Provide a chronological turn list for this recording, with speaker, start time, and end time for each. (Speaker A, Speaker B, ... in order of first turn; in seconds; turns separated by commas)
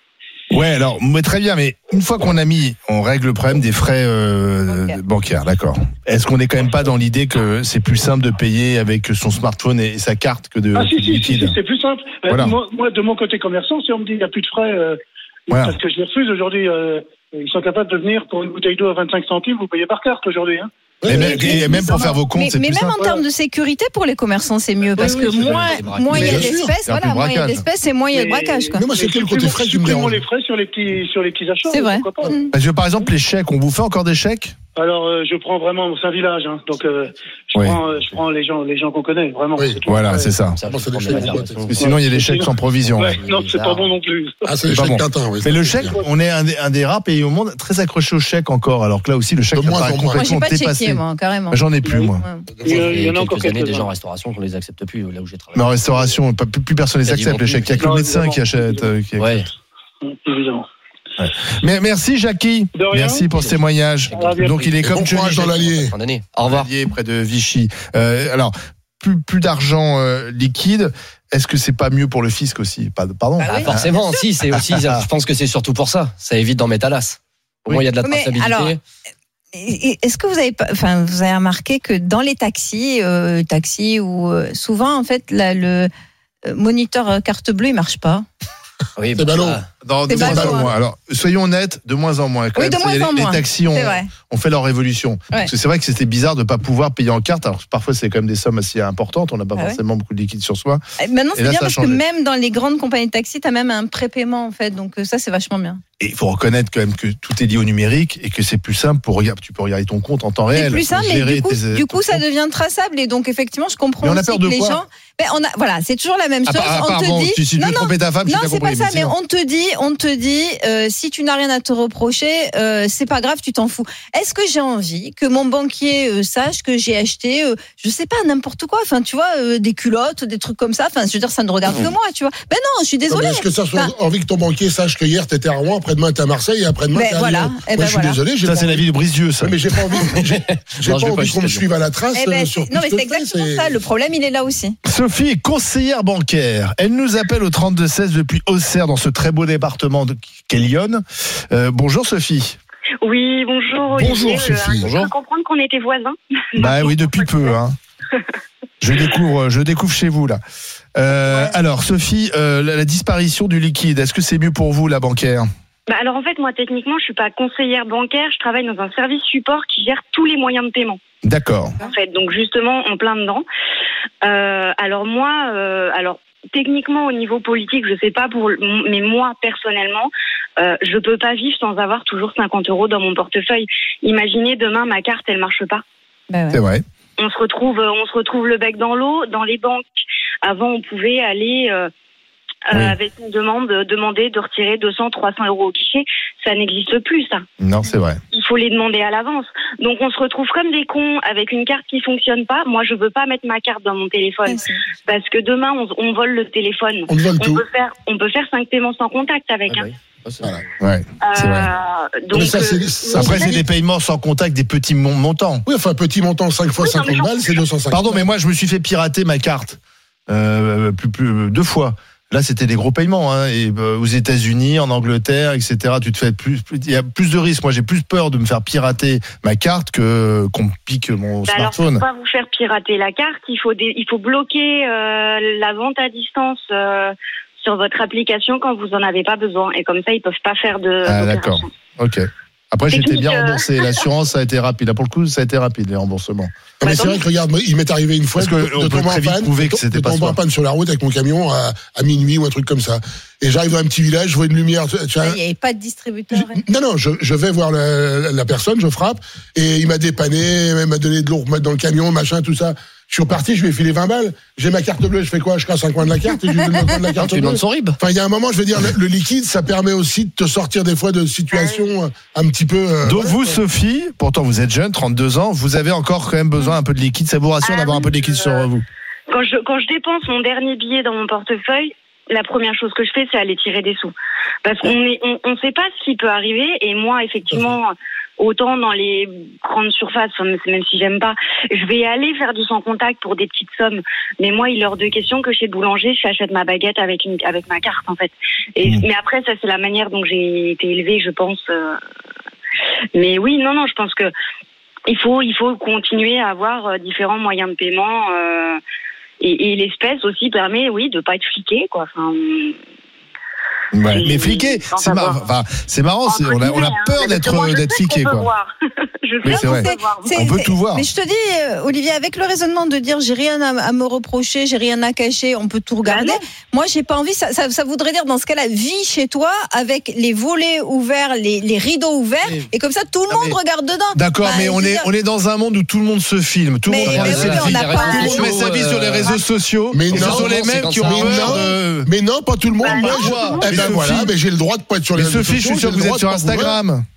Speaker A: 0.5-11.6, Speaker B: 4.7-5.0, Speaker C: 10.8-20.7, Speaker A: 12.3-12.6, Speaker A: 15.5-15.8, Speaker D: 21.0-21.5, Speaker A: 21.0-23.0, Speaker B: 21.1-28.9, Speaker E: 24.8-26.1, Speaker C: 25.0-26.4, Speaker A: 26.1-27.6, Speaker D: 26.1-26.7, Speaker C: 28.1-32.4, Speaker D: 28.7-30.2, Speaker B: 31.7-32.5, Speaker A: 32.5-34.5, Speaker C: 34.8-40.3, Speaker A: 37.5-37.8, Speaker D: 39.5-39.8, Speaker A: 39.9-40.6, Speaker E: 40.5-41.8, Speaker D: 40.6-41.8, Speaker C: 41.1-44.6, Speaker A: 41.7-43.2, Speaker E: 43.0-43.9, Speaker D: 44.5-45.9, Speaker A: 44.7-52.2, Speaker D: 49.5-50.2, Speaker B: 50.1-51.6, Speaker C: 51.8-53.9, Speaker B: 52.1-52.5, Speaker D: 52.5-53.1, Speaker E: 52.7-55.8, Speaker A: 55.5-59.5, Speaker E: 57.0-57.8, Speaker C: 57.8-58.9, Speaker E: 59.2-59.5, Speaker C: 60.0-60.7, Speaker A: 61.2-65.7, Speaker C: 62.8-63.2, Speaker E: 64.1-64.5, Speaker C: 64.2-64.6, Speaker D: 64.8-65.9, Speaker E: 65.7-66.7, Speaker A: 66.4-75.0, Speaker B: 73.4-74.2, Speaker E: 73.5-78.8, Speaker B: 78.0-78.8, Speaker B: 79.5-85.9, Speaker B: 86.5-88.2, Speaker E: 89.0-89.7, Speaker D: 89.1-89.6, Speaker A: 89.8-100.8, Speaker B: 90.1-90.7, Speaker D: 90.1-90.7, Speaker B: 92.5-94.1, Speaker B: 101.0-105.8, Speaker A: 101.3-102.0, Speaker A: 106.0-112.2, Speaker B: 110.5-133.9, Speaker A: 114.0-114.8, Speaker A: 116.5-119.1, Speaker D: 133.1-138.9, Speaker B: 136.9-138.2, Speaker A: 138.4-139.7, Speaker D: 139.4-143.7, Speaker E: 140.3-141.7, Speaker B: 142.1-144.8, Speaker A: 144.8-152.6, Speaker F: 153.0-157.3, Speaker A: 153.9-154.9, Speaker E: 154.8-155.1, Speaker A: 156.6-157.8, Speaker A: 158.8-160.4, Speaker A: 160.9-165.5, Speaker F: 165.9-171.0, Speaker A: 171.2-171.8, Speaker F: 171.8-173.4, Speaker F: 174.2-185.8, Speaker B: 186.3-186.6, Speaker A: 186.5-186.8, Speaker F: 187.2-191.9, Speaker F: 192.7-197.4, Speaker A: 197.6-198.2, Speaker F: 198.3-209.9, Speaker B: 204.4-204.8, Speaker D: 207.1-207.6, Speaker E: 209.7-210.6, Speaker A: 210.8-211.7, Speaker F: 211.2-213.6, Speaker D: 212.3-213.6, Speaker A: 213.1-215.6, Speaker D: 215.7-218.2, Speaker F: 216.8-217.6, Speaker A: 217.9-232.0, Speaker F: 231.4-241.7, Speaker A: 241.0-246.5, Speaker F: 242.9-244.0, Speaker D: 246.8-255.4, Speaker B: 246.8-247.2, Speaker A: 248.4-250.4, Speaker B: 255.2-256.6, Speaker D: 256.3-273.6, Speaker E: 267.2-267.9, Speaker F: 271.5-271.9, Speaker A: 273.0-278.8, Speaker F: 277.6-278.7, Speaker F: 279.3-284.1, Speaker F: 284.6-302.0, Speaker F: 303.1-304.3, Speaker F: 305.1-308.8, Speaker F: 309.4-312.8, Speaker A: 313.9-318.5, Speaker F: 314.1-315.4, Speaker F: 316.2-318.7, Speaker F: 319.2-320.3, Speaker A: 319.4-321.1, Speaker B: 319.4-335.1, Speaker F: 326.0-326.4, Speaker E: 332.4-332.7, Speaker E: 333.3-333.6, Speaker A: 334.1-342.1, Speaker B: 336.9-338.7, Speaker E: 337.0-339.3, Speaker D: 339.9-346.8, Speaker E: 340.1-341.7, Speaker F: 342.8-343.9, Speaker A: 342.9-344.3, Speaker A: 345.1-347.0